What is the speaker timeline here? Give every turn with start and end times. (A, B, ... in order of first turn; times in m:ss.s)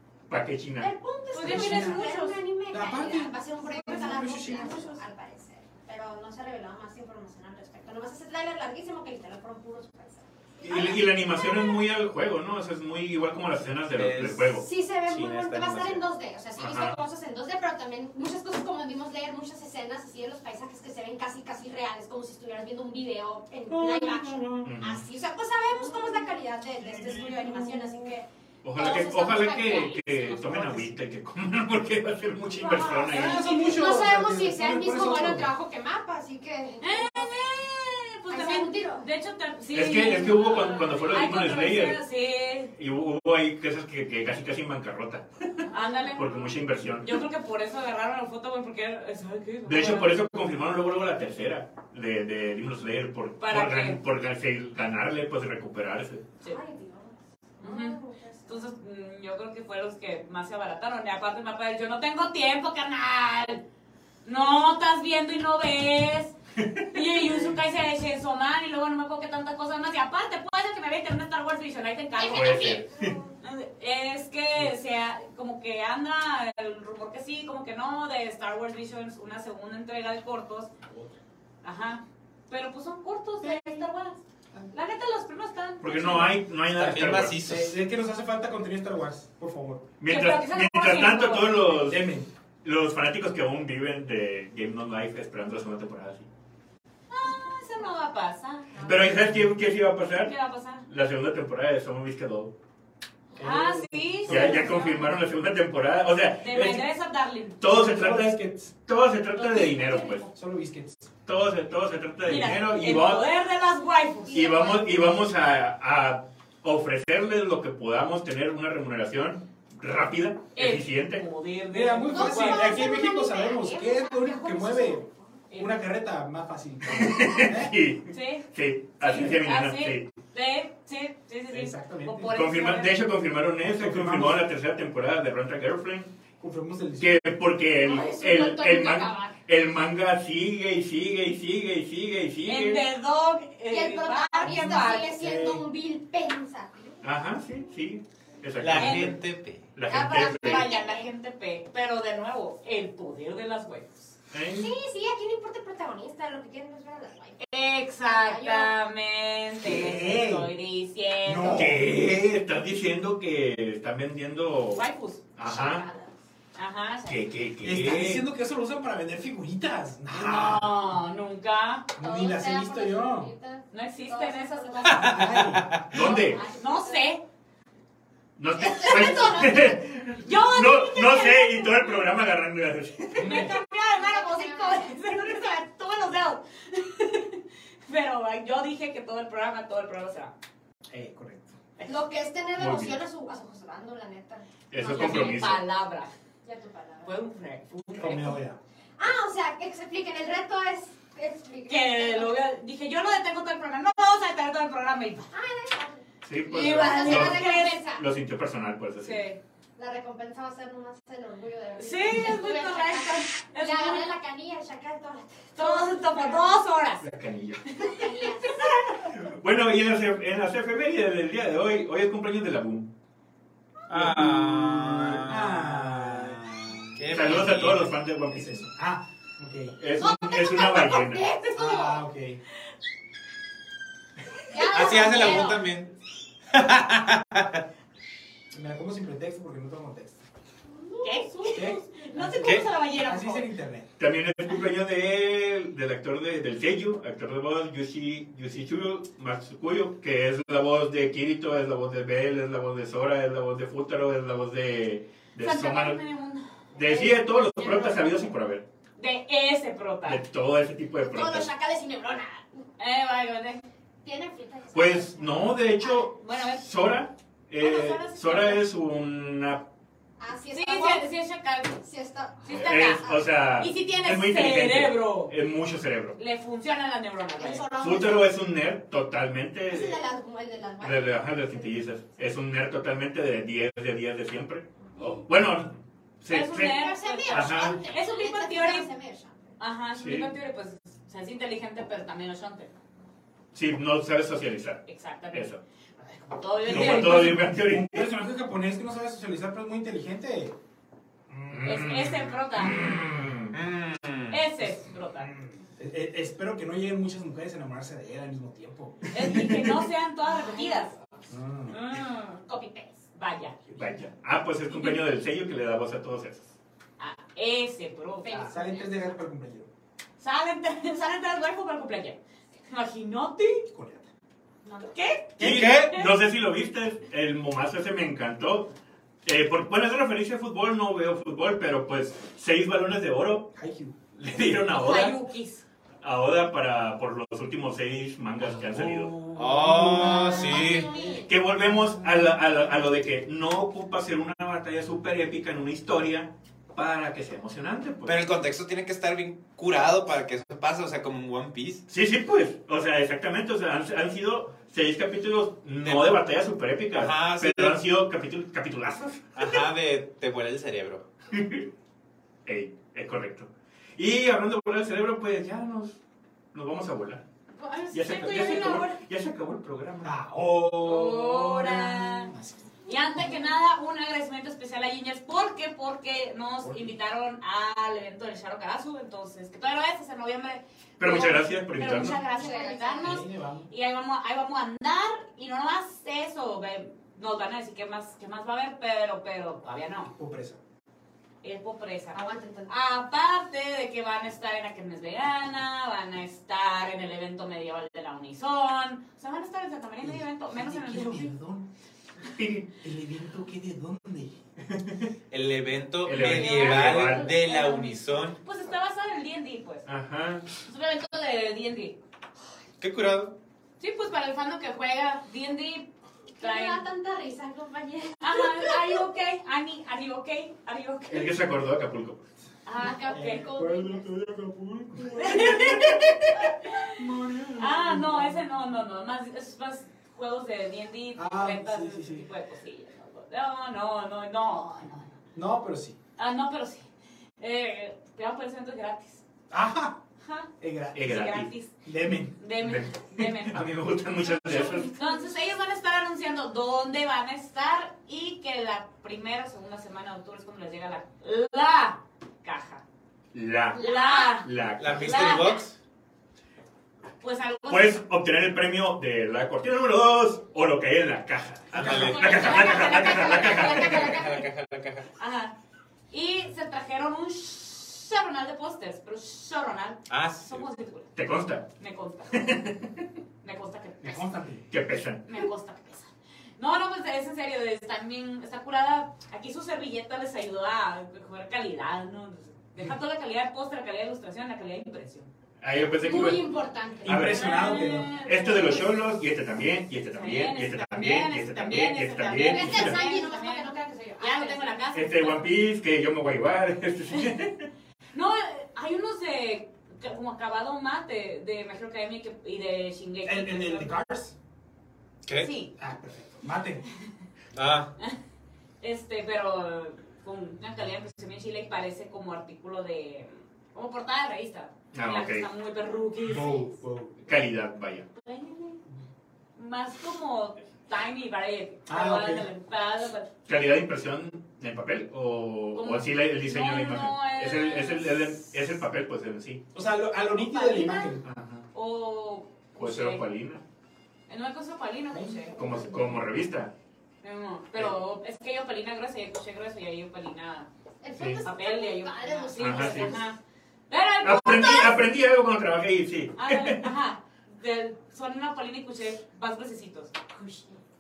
0:00.3-0:00.9 A
0:00.8-0:11.8 B
0:01.3-0:02.4 C
0:01.4-0:02.1 D
0:02.7-0:04.9 D
0:03.7-0:05.0 C
0:10.6-0:14.6 A
0:13.9-0:16.0 E
0:14.6-0:30.0 B
0:16.6-0:17.0 A
0:23.7-0:24.7 D
0:24.6-0:25.0 A
0:28.6-0:33.6 A
0:28.8-0:30.8 C
0:32.5-0:37.6 B
0:33.0-0:35.5 D
0:36.8-0:42.7 C
0:38.3-0:39.0 B
0:39.7-0:42.0 A
0:42.7-0:47.2 A
0:45.7-0:50.2 C
0:49.7-0:56.2 A
0:53.4-0:54.0 C
0:56.4-0:58.6 B
0:57.6-1:03.6 C
1:04.2-1:06.4 C
1:06.6-1:06.9 A
1:06.9-1:12.8 C
1:12.2-1:13.4 B
1:12.3-1:13.2 A
1:13.4-1:20.7 C
1:20.9-1:21.2 D
1:21.6-1:24.2 C
1:23.4-1:23.9 D
1:24.7-1:26.4 C
1:25.8-1:27.4 A
1:26.7-1:27.8 E
1:27.4-1:29.9 D
1:30.0-1:32.1 A
1:30.1-1:31.8 C
1:31.8-1:32.3 D
1:32.6-1:36.3 A
1:37.1-1:38.8 C
1:38.8-1:39.6 D
1:38.8-1:40.3 A
1:40.2-1:40.9 C
1:40.9-1:42.5 A
1:43.4-1:44.8 D
1:43.4-1:45.1 C
1:44.3-1:46.9 A
1:46.4-1:47.6 C
1:47.6-1:50.3 A
1:47.7-1:48.7 D
1:49.4-1:50.3 C
1:50.3-1:51.1 D
1:51.3-1:53.3 A
1:52.2-1:54.8 C
1:54.3-1:54.8 B
1:54.3-2:01.2 A
2:00.6-2:03.0 C
2:01.7-2:07.7 D
2:02.1-2:05.4 B
2:06.9-2:10.1 A
2:08.1-2:08.5 C
2:09.0-2:13.0 C
2:11.5-2:12.3 D
2:12.3-2:16.1 A
2:13.6-2:14.4 D
2:16.4-2:17.2 D
2:17.0-2:22.8 A
2:17.8-2:19.4 B
2:22.4-2:25.2 C
2:23.7-2:27.0 B
2:24.4-2:25.6 D
2:27.0-2:29.2 A
2:28.6-2:29.7 E
2:28.8-2:29.2 C
2:29.7-2:30.7 A
2:29.9-2:34.2 C
2:30.1-2:31.1 B
2:34.3-2:34.7 A
2:34.5-2:37.4 B
2:37.4-2:41.8 C
2:38.1-2:38.7 B
2:39.6-2:40.5 D
2:41.2-2:41.8 D
2:41.5-2:44.8 A
2:44.8-2:45.2 C
2:45.4-2:45.9 A
2:45.4-2:46.2 B
2:46.6-2:47.2 C
2:47.1-2:48.2 A
2:47.6-2:50.8 D
2:50.1-2:51.9 C
2:52.0-2:53.3 D
2:52.0-2:55.1 B
2:53.7-2:55.4 C
2:54.9-2:55.8 D
2:55.0-2:55.9 E
2:55.9-2:56.4 A
2:55.9-2:57.2 C
2:55.9-2:56.9 B
2:58.4-3:03.5 A
2:58.6-2:59.6 B
2:58.8-2:59.5 C
3:00.2-3:02.0 C
3:03.2-3:03.6 D
3:03.2-3:10.3 C
3:03.9-3:05.3 B
3:10.9-3:11.6 D
3:11.9-3:15.4 B
3:12.6-3:13.0 A
3:14.7-3:15.6 A
3:14.8-3:16.1 C
3:16.4-3:17.1 B
3:17.0-3:18.4 C
3:18.0-3:18.6 D
3:19.0-3:22.4 B
3:21.7-3:25.3 C
3:25.3-3:28.0 B
3:26.2-3:29.2 A
3:26.5-3:27.9 C
3:29.0-3:29.4 C
3:29.8-3:36.6 B
3:31.8-3:34.1 C
3:35.6-3:37.0 C
3:37.0-3:37.6 A
3:37.7-3:38.8 C
3:37.8-3:38.7 B
3:38.9-3:42.9 A
3:43.9-3:47.9 E
3:43.9-3:49.8 D
3:47.1-3:48.7 A
3:49.8-3:51.3 A
3:50.0-3:52.0 B
3:51.6-3:52.4 D
3:54.5-3:55.7 B
3:54.7-3:55.9 E
3:54.9-3:55.6 C
3:56.5-3:57.6 E
3:58.5-4:00.2 D
4:00.8-4:01.8 B
4:01.0-4:03.5 C
4:01.5-4:03.9 D
4:02.4-4:02.7 E
4:04.0-4:16.0 A
4:15.4-4:18.2 C
4:16.7-4:18.6 A
4:16.8-4:17.7 B
4:19.0-4:20.2 C
4:20.1-4:21.5 A
4:21.0-4:22.4 B
4:22.8-4:23.6 C
4:24.0-4:26.1 B
4:24.7-4:29.6 A
4:26.2-4:26.7 C
4:27.6-4:28.6 C
4:30.2-4:31.1 B
4:30.5-4:31.8 C
4:31.8-4:33.2 B
4:32.4-4:35.3 C
4:32.5-4:36.2 A
4:36.2-4:37.7 C
4:37.4-4:38.3 B
4:37.8-4:40.0 A
4:39.7-4:41.8 B
4:40.8-4:46.8 A
4:45.0-4:45.2 B
4:46.3-4:48.9 C
4:46.5-4:49.5 B
4:47.3-4:47.8 A
4:49.6-4:52.7 C
4:49.9-4:50.3 A
4:53.5-4:55.6 A
4:54.9-4:55.5 C
4:56.1-4:57.5 C
4:56.6-5:00.6 D
4:56.7-4:58.1 A
5:01.3-5:02.1 D
5:01.5-5:03.6 A
5:01.6-5:03.0 C
5:03.5-5:04.4 E
5:04.3-5:05.4 C
5:05.3-5:09.6 D
5:09.1-5:11.0 C
5:09.2-5:09.7 A
5:10.5-5:10.7 B
5:11.3-5:11.8 D
5:11.7-5:12.4 C
5:11.9-5:13.0 B
5:13.2-5:13.6 C
5:13.6-5:14.0 D
5:13.8-5:16.5 A
5:14.7-5:15.0 C
5:17.0-5:18.5 C
5:18.2-5:19.1 B
5:18.3-5:19.7 D
5:20.2-5:23.6 C
5:23.7-5:24.1 D
5:24.6-5:24.9 B
5:24.9-5:26.2 C
5:25.4-5:26.0 E
5:25.4-5:28.7 A
5:29.2-5:33.5 A
5:33.5-5:34.0 D
5:34.2-5:35.2 A
5:34.7-5:35.7 C
5:36.0-5:39.2 A
5:38.7-5:42.2 D
5:39.3-5:40.9 E
5:39.8-5:41.3 B
5:41.3-5:48.2 A
5:48.0-5:51.8 E
5:51.9-5:59.7 A
5:55.8-5:56.2 E
5:56.9-5:57.8 E
5:59.4-6:01.0 E
6:01.3-6:01.6 A
6:02.4-6:06.0 A
6:06.5-6:07.2 A
6:07.6-6:09.0 C
6:07.7-6:08.8 B
6:07.9-6:10.2 A
6:10.0-6:12.7 D
6:10.8-6:12.3 C
6:12.9-6:30.1 C
6:16.6-6:16.9 D
6:21.0-6:22.2 A
6:22.0-6:23.2 B
6:23.0-6:23.7 D
6:30.1-6:30.6 D
6:31.4-6:41.3 C
6:32.1-6:32.7 B
6:40.0-6:41.7 D
6:42.4-6:44.4 D
6:44.7-6:45.1 A
6:45.3-6:48.4 E
6:46.0-6:47.4 A
6:46.1-6:49.9 C
6:49.9-6:50.4 A
6:50.6-6:52.0 C
6:52.8-6:53.3 E
6:53.8-6:56.8 C
6:56.4-6:59.0 B
6:58.2-7:01.4 C
7:01.1-7:02.2 A
7:02.6-7:03.5 C
7:02.8-7:04.1 B
7:03.1-7:08.4 D
7:05.2-7:07.0 C
7:07.6-7:15.2 C
7:11.2-7:12.3 D
7:15.4-7:16.0 D
7:16.2-7:16.9 C
7:17.4-7:19.2 C
7:19.5-7:20.0 D
7:20.2-7:21.8 C
7:20.6-7:21.2 D
7:20.9-7:21.5 A
7:21.8-7:22.4 D
7:22.4-7:23.6 C
7:22.6-7:24.9 A
7:24.4-7:32.8 C
7:24.5-7:25.3 B
7:33.3-7:33.8 A
7:33.7-7:34.4 B
7:33.8-7:35.6 C
7:34.4-7:35.4 A
7:34.8-7:35.8 E
7:37.2-7:38.0 C
7:37.7-7:44.2 A
7:41.7-7:45.1 E
7:41.8-7:44.4 C
7:42.4-7:44.1 B
7:45.2-7:45.5 C
7:46.1-7:51.1 C
7:50.1-7:50.6 E
7:51.2-7:51.6 A
7:51.8-7:52.7 C
7:52.3-7:52.9 A
7:53.4-7:54.4 C
7:54.0-7:54.7 D
7:54.7-7:55.2 A
7:55.3-8:05.3 C
8:05.6-8:06.5 A
8:06.0-8:07.7 B
8:07.0-8:08.2 D
8:07.0-8:13.0 A
8:07.3-8:08.9 C
8:08.2-8:08.5 B
8:10.1-8:15.4 C
8:12.4-8:14.9 B
8:14.9-8:17.7 A
8:18.1-8:23.9 C
8:23.2-8:24.4 D
8:25.2-8:25.5 E
8:25.4-8:25.7 C
8:25.8-8:26.8 D
8:27.5-8:27.9 E
8:28.8-8:36.8 C
8:34.9-8:35.5 A
8:36.3-8:37.3 D
8:37.2-8:38.1 A
8:38.2-8:38.8 C
8:39.6-8:43.3 C
8:41.9-8:42.5 D
8:43.5-8:49.6 A
8:45.8-8:48.4 C
8:49.7-8:51.2 D
8:50.4-8:50.9 B
8:50.7-8:51.1 C
8:51.2-8:51.6 A
8:51.7-8:53.2 C
8:52.8-8:53.6 A
8:54.3-8:55.6 C
8:55.1-8:56.2 D
8:55.6-8:56.7 A
8:57.2-9:00.7 C
9:01.0-9:03.3 B
9:01.2-9:01.4 A
9:01.4-9:03.4 C
9:02.6-9:03.2 A
9:03.9-9:05.0 C
9:04.2-9:06.9 A
9:06.4-9:10.3 C
9:10.4-9:10.8 B